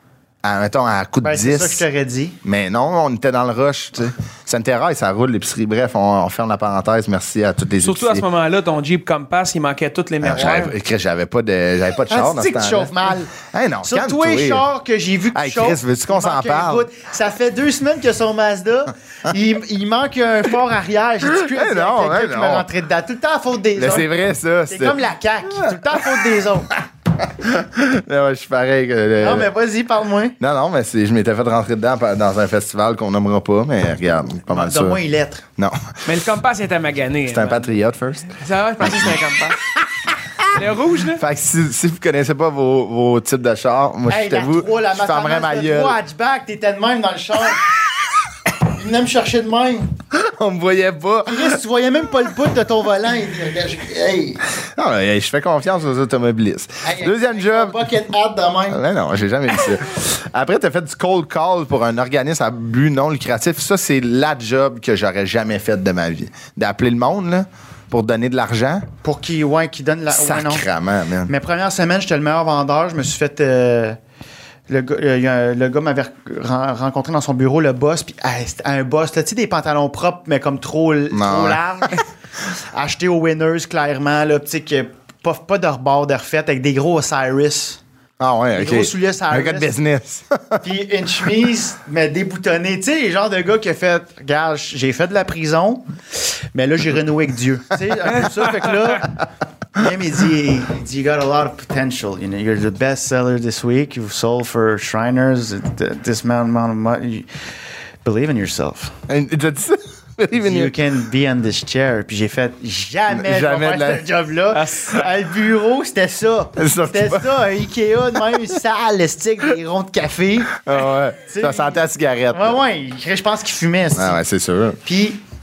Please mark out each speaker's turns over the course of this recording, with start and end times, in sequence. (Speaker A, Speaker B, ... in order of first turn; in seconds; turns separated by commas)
Speaker A: 0.4-1.8, Speaker B: 1.2-2.4, Speaker A: 2.4-8.2, Speaker C: 7.8-10.8, Speaker A: 10.2-14.7, Speaker B: 12.1-13.3, Speaker B: 13.8-24.1, Speaker A: 15.3-16.9, Speaker A: 21.3-22.7, Speaker A: 23.8-25.0, Speaker B: 24.7-26.7, Speaker A: 25.5-29.5, Speaker B: 29.2-30.4, Speaker A: 30.4-35.0, Speaker B: 34.5-35.5, Speaker A: 35.6-36.2, Speaker C: 36.1-37.8, Speaker A: 37.3-39.1, Speaker C: 38.3-39.6, Speaker A: 39.8-46.0, Speaker C: 40.5-41.2, Speaker B: 44.1-47.7, Speaker B: 48.7-49.9, Speaker A: 50.1-51.6, Speaker B: 51.3-54.4, Speaker A: 54.8-57.8, Speaker B: 56.8-58.8, Speaker A: 58.7-68.9, Speaker B: 69.0-70.7, Speaker A: 70.1-71.3, Speaker B: 71.3-74.0, Speaker B: 74.7-82.0, Speaker A: 81.1-82.0, Speaker B: 82.5-87.8, Speaker A: 88.2-90.6, Speaker B: 88.5-89.7, Speaker B: 90.6-99.2, Speaker C: 98.2-99.0, Speaker B: 99.7-107.3, Speaker B: 108.0-108.9, Speaker A: 109.1-110.7, Speaker B: 110.3-120.6, Speaker A: 113.1-114.0, Speaker C: 114.5-115.0, Speaker A: 116.6-117.6, Speaker A: 120.5-122.6, Speaker B: 121.3-124.2, Speaker A: 124.0-124.8, Speaker B: 124.8-125.2